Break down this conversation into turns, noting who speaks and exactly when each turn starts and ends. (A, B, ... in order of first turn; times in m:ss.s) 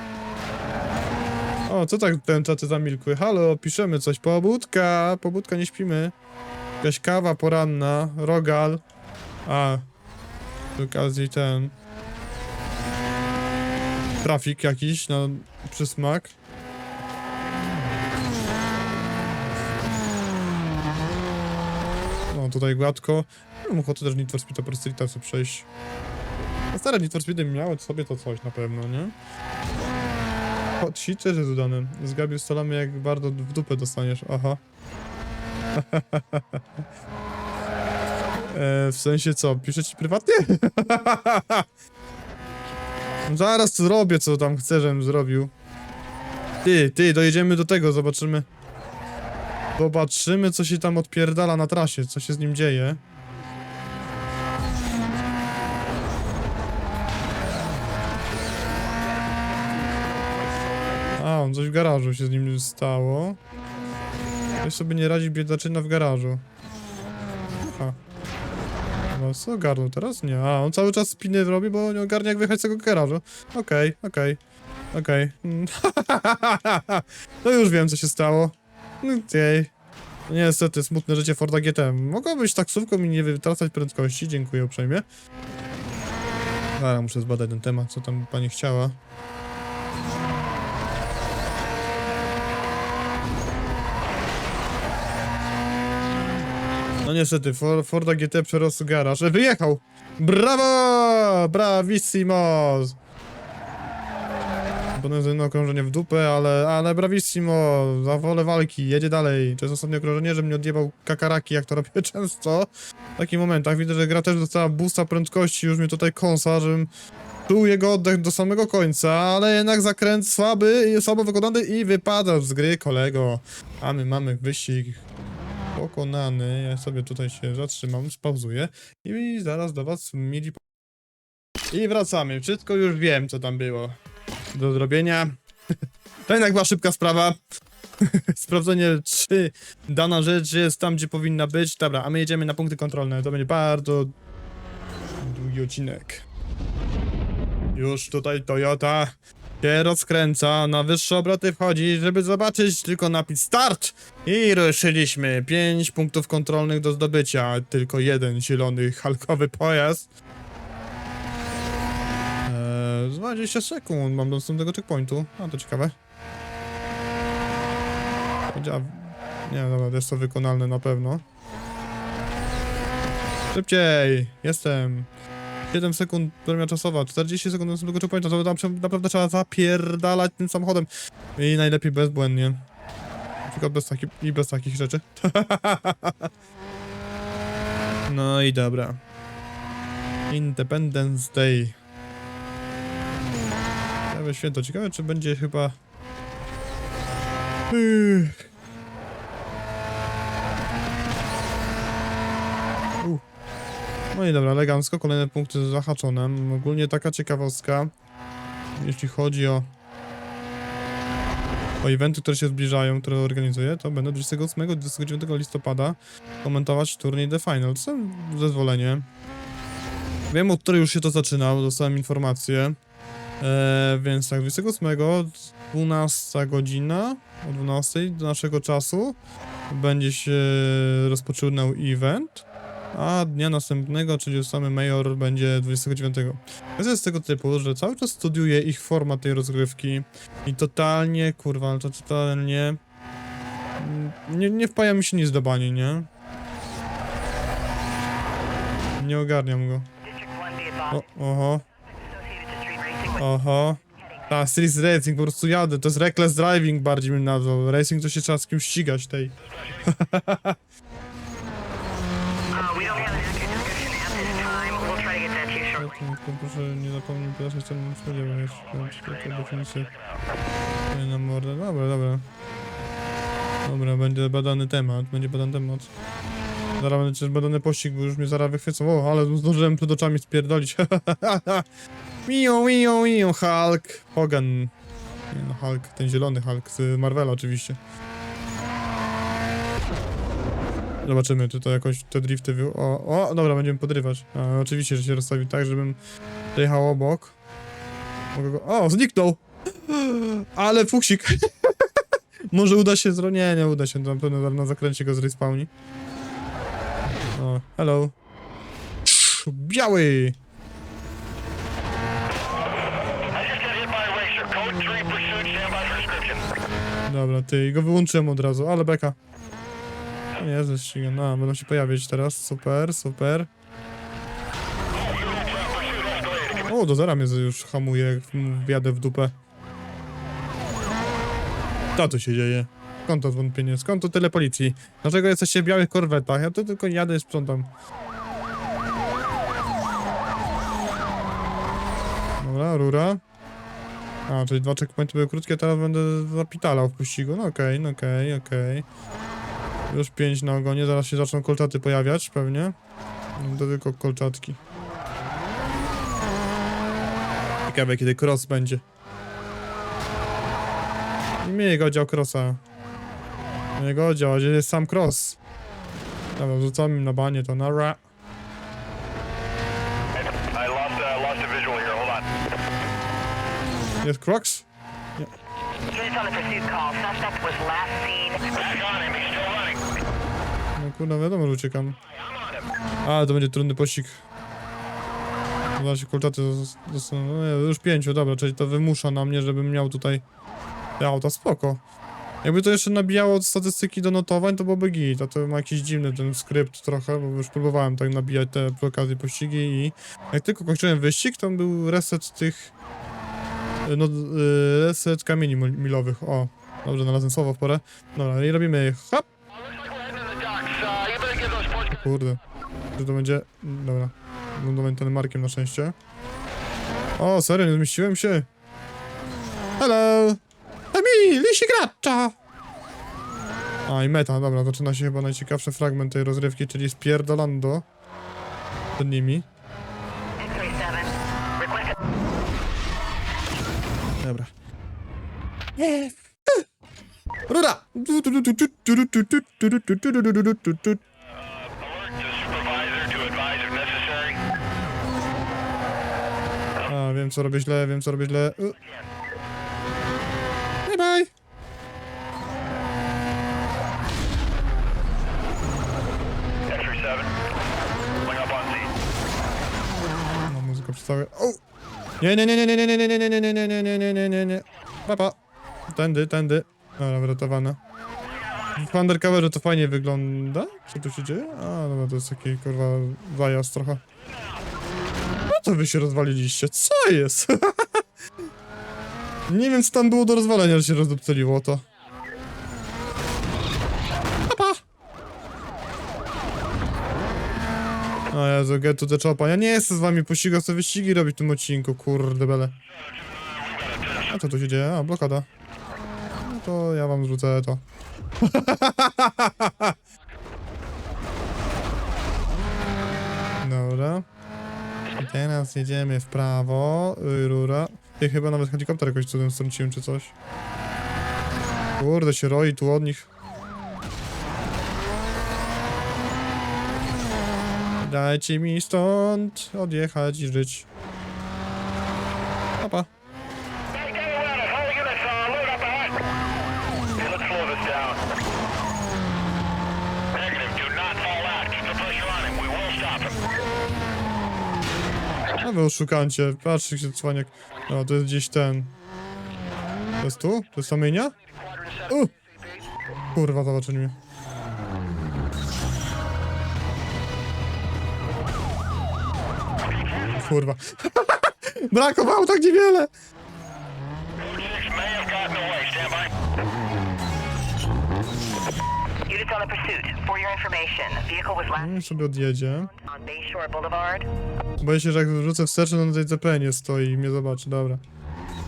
0:01.7-0:06.1 A
0:06.8-0:08.8 A
0:09.4-0:09.9 A
0:10.8-0:11.8 A
0:14.2-0:16.4 A
0:22.3-0:25.7 A
0:26.7-0:29.2 A
0:30.8-0:34.6 A
0:35.8-0:36.6 A
0:38.5-0:41.7 A
0:43.3-0:45.5 A
0:46.6-0:48.5 A
0:49.8-0:53.0 A
1:01.2-1:03.4 A
1:04.6-1:06.4 A
1:07.7-1:08.0 A
1:09.1-1:14.4 A
1:14.9-1:19.7 A
1:20.3-1:25.0 A
1:26.8-1:29.0 A
1:37.0-1:43.0 A
1:45.0-1:56.9 A
1:57.5-2:05.1 A
2:05.7-2:10.6 A
2:11.7-2:14.0 A
2:14.5-2:15.4 A
2:16.3-2:17.4 A
2:18.0-2:24.1 A
2:25.2-2:26.3 A
2:27.8-2:40.1 A
2:42.5-2:46.0 A
2:48.5-2:51.2 A
2:53.5-2:55.1 A
2:55.7-3:02.6 A
3:03.4-3:06.3 A
3:08.1-3:09.0 A
3:10.3-3:11.8 A
3:14.1-3:15.8 A
3:17.7-3:18.4 A
3:24.1-3:27.9 A
3:28.8-3:29.7 A
3:31.8-3:39.1 A
3:40.3-3:42.8 A
3:43.4-3:49.2 A
3:49.7-4:02.8 A
4:03.8-4:06.1 A
4:09.0-4:09.9 A
4:10.0-4:11.1 B
4:10.9-4:11.6 A
4:11.7-4:13.3 B
4:13.2-4:13.8 A
4:14.0-4:14.3 B
4:14.3-4:20.6 A
4:22.5-4:26.0 B
4:25.8-4:29.9 A
4:29.0-4:29.4 C
4:30.9-4:32.3 A
4:33.6-4:35.9 A
4:36.8-4:41.7 A
4:42.3-4:44.7 A
4:45.3-4:47.8 A
4:51.0-4:56.0 A
4:56.5-4:57.4 A
4:58.3-5:01.9 A
5:02.5-5:05.7 A
5:07.3-5:08.2 A
5:09.0-5:10.4 A
5:13.3-5:16.5 C
5:17.1-5:19.2 A
5:20.4-5:23.5 A
5:24.9-5:26.6 C
5:26.7-5:29.4 A
5:32.0-5:37.7 A
5:42.4-5:43.2 A
5:44.3-5:48.9 A
5:49.9-5:52.8 A
5:53.4-5:54.6 A
5:57.7-5:58.8 A
6:01.4-6:02.6 A
6:03.8-6:05.4 A
6:06.4-6:08.0 A
6:10.1-6:12.3 C
6:14.0-6:14.7 A
6:15.9-6:18.4 B
6:18.5-6:19.8 C
6:20.8-6:22.0 A
6:22.2-6:22.6 C
6:23.0-6:24.2 A
6:25.8-6:30.2 A
6:31.0-6:31.8 A
6:32.4-6:42.7 A
6:43.8-6:49.3 A
6:49.5-6:51.9 C
6:51.9-6:52.4 A
6:53.0-6:56.0 A
6:57.2-6:58.5 A
6:59.8-7:00.4 A
7:00.9-7:02.4 A
7:03.9-7:07.8 A
7:09.0-7:09.5 A
7:10.4-7:12.0 B
7:14.2-7:14.5 A
7:15.8-7:16.6 A
7:17.5-7:21.0 A
7:21.3-7:24.4 C
7:26.9-7:28.8 A
7:30.8-7:31.3 A
7:36.7-7:37.3 C
7:38.2-7:38.9 C
7:40.5-7:41.6 A
7:42.2-7:45.4 A
7:45.9-7:47.8 A
7:48.8-7:54.0 A
7:55.5-7:58.0 A
7:59.5-8:01.8 A
8:04.5-8:04.8 A
8:08.3-8:12.8 A
8:13.0-8:14.3 C
8:14.3-8:15.5 A
8:16.4-8:17.8 A
8:18.4-8:20.0 A
8:23.6-8:24.3 A
8:25.2-8:30.3 A
8:32.0-8:33.3 A
8:38.0-8:40.9 A
8:42.8-8:43.1 A
8:43.9-8:46.2 C
8:47.2-8:48.2 C
8:50.3-8:53.4 C
8:55.6-8:59.0 A
9:00.2-9:01.3 A
9:01.5-9:02.8 C
9:03.3-9:04.2 A
9:09.8-9:10.4 C
9:10.4-9:13.1 A
9:14.4-9:16.3 C
9:19.3-9:24.3 B
9:21.7-9:22.9 A
9:24.8-9:28.0 A